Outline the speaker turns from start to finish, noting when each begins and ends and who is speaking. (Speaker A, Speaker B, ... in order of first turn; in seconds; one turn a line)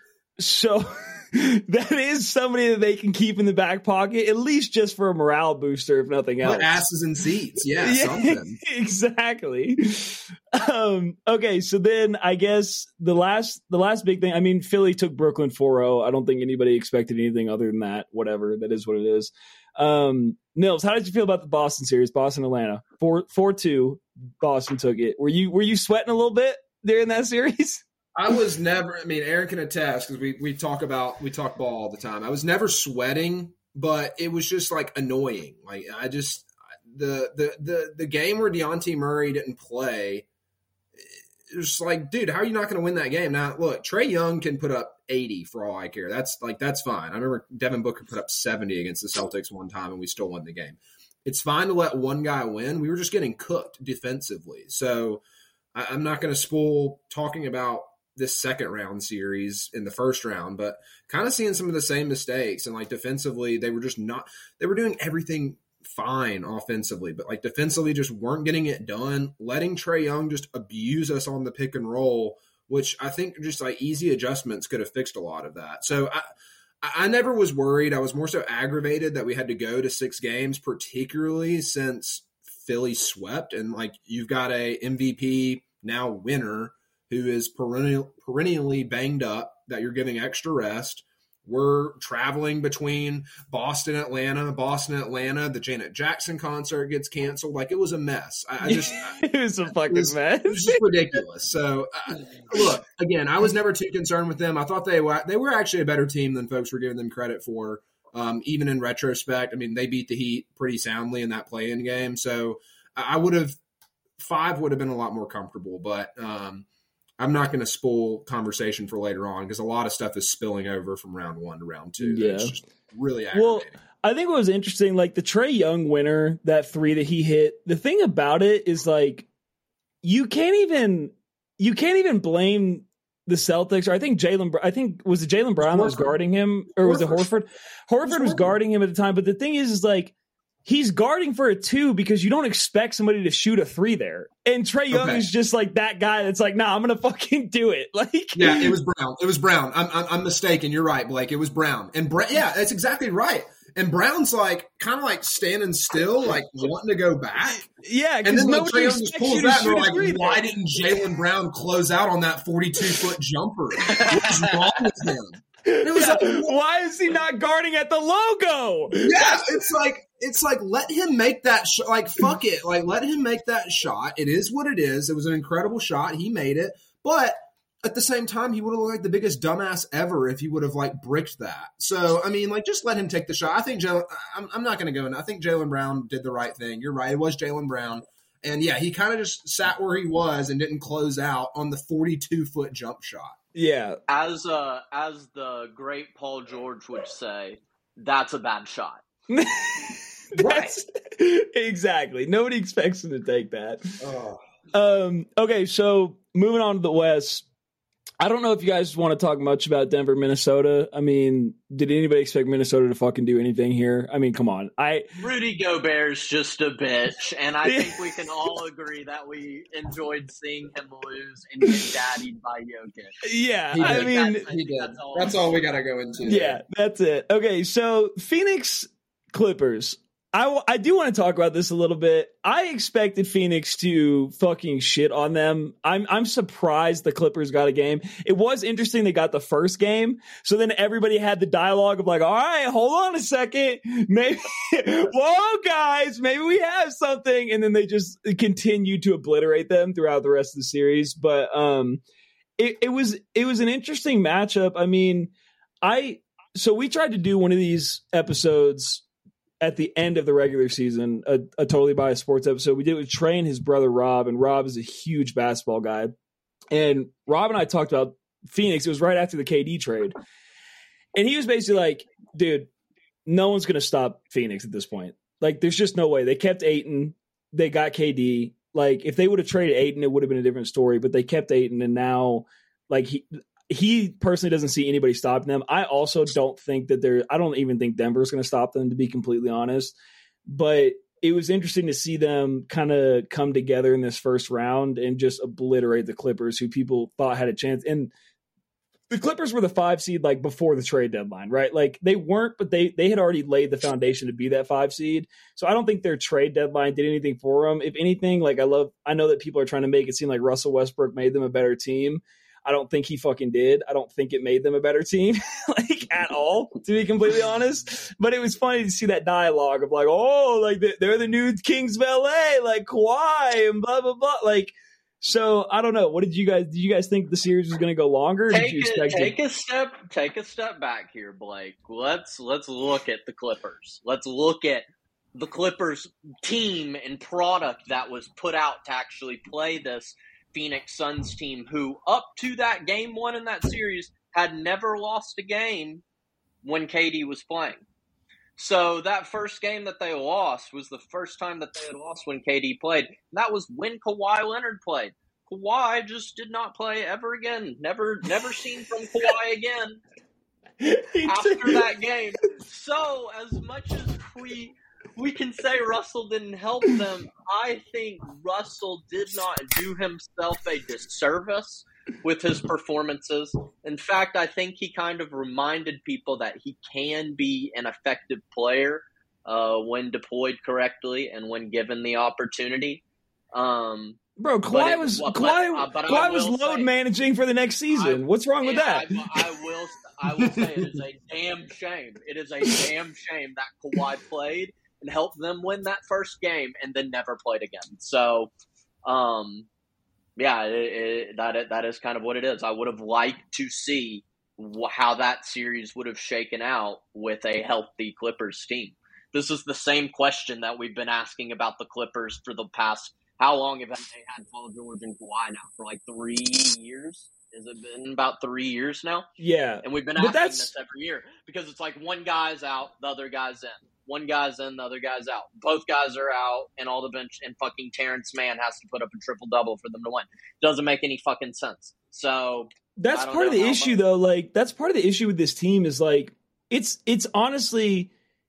Speaker A: 0.4-6.8
Speaker B: 6.4-8.6
Speaker A: 7.8-27.8
Speaker B: 28.1-40.2
Speaker B: 41.0-55.2
Speaker B: 55.7-76.2
Speaker B: 76.8-99.2
Speaker A: 98.6-100.8
Speaker B: 99.9-113.6
Speaker B: 114.2-116.7
Speaker B: 117.2-123.8
Speaker A: 122.0-122.5
Speaker A: 123.3-129.3
Speaker A: 130.0-140.1
Speaker B: 135.6-136.1
Speaker B: 136.8-137.3
Speaker B: 138.0-138.5
Speaker A: 140.6-148.8
Speaker B: 144.9-145.2
Speaker B: 148.3-157.6
Speaker A: 157.5-160.4
Speaker B: 158.2-166.6
Speaker C: 163.9-164.5
Speaker A: 165.7-169.6
Speaker B: 168.9-193.4
Speaker A: 193.5-194.0
Speaker C: 194.1-199.0
Speaker A: 199.3-203.9
Speaker B: 200.3-200.7
Speaker B: 204.0-204.4
Speaker A: 204.7-207.4
Speaker A: 208.2-215.1
Speaker C: 215.2-223.2
Speaker A: 217.6-218.1
Speaker A: 223.2-224.4
Speaker B: 223.7-226.6
Speaker C: 223.8-225.8
Speaker A: 226.2-252.0
Speaker A: 252.6-259.0
Speaker A: 259.6-266.1
Speaker A: 266.7-270.1
Speaker A: 271.1-272.7
Speaker A: 273.2-289.9
Speaker A: 290.4-298.1
Speaker A: 299.1-329.4
Speaker C: 328.5-346.0
Speaker C: 346.6-347.8
Speaker C: 348.6-360.0
Speaker A: 360.8-361.8
Speaker C: 361.2-383.0
Speaker C: 383.5-384.2
Speaker A: 384.4-389.4
Speaker C: 384.7-386.9
Speaker C: 387.9-398.5
Speaker B: 390.5-390.8
Speaker C: 399.1-399.7
Speaker C: 400.4-419.3
Speaker A: 419.4-420.7
Speaker C: 419.8-434.0
Speaker A: 433.0-438.1